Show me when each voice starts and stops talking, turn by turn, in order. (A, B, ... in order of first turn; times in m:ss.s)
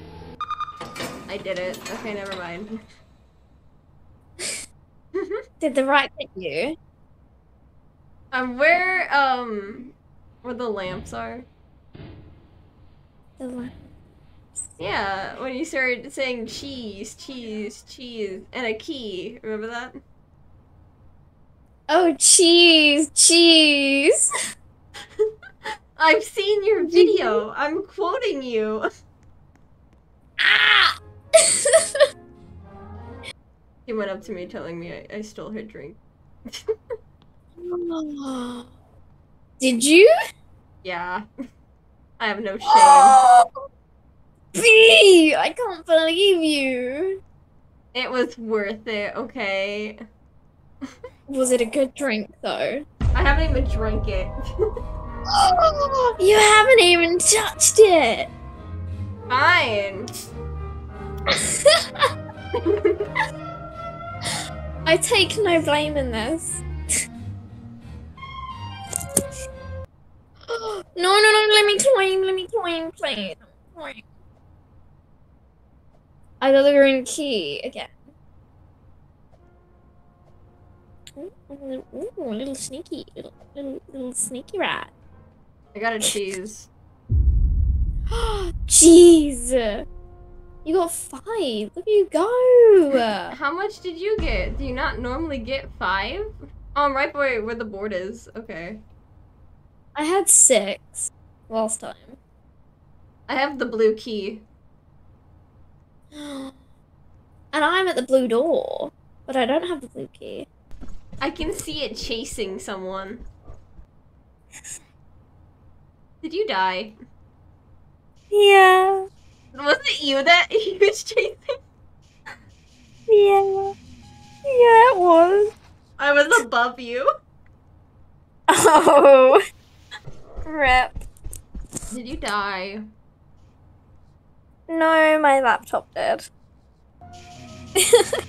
0:01.3-0:02.8 A
0:05.6-0:06.8 B
0:08.3-0:09.9 A
0:10.4-0:11.5 A
0:13.4-0:13.8 B
0:14.8-0:20.0 A
0:21.9-0:24.3 B
0:26.0-0:28.9 A
0:26.8-0:27.4 B
0:30.4-0:32.0 B
0:33.9-0:36.0 A
0:37.6-0:38.7 B
0:39.6-0:40.1 B
0:40.8-0:41.2 A
0:42.2-0:43.2 A
0:42.7-0:43.5 B
0:44.6-0:47.2 B
0:47.9-0:50.0 A
0:51.3-0:52.8 B
0:53.1-0:54.4 A
0:55.3-0:58.3 B
0:59.3-1:00.1 A
1:01.3-1:01.7 B
1:02.7-1:03.0 A
1:04.8-1:06.6 B
1:10.5-1:14.0 B
1:16.4-1:17.9 B
1:21.2-1:24.9 B
1:25.7-1:26.7 A
1:28.1-1:29.8 B
1:30.6-1:33.4 B
1:33.3-1:38.8 A
1:40.0-1:42.2 B
1:43.3-1:44.5 A
1:46.1-1:46.5 B
1:47.5-1:50.5 B
1:51.2-1:53.3 A
1:56.2-1:57.0 A
1:58.3-1:59.1 B
1:59.5-2:01.5 A
2:03.1-2:03.8 B
2:04.5-2:05.5 B
2:06.0-2:07.1 A
2:08.5-2:09.4 B
2:10.4-2:10.9 B
2:11.9-2:12.8 A
2:14.7-2:16.3 B
2:17.8-2:18.2 B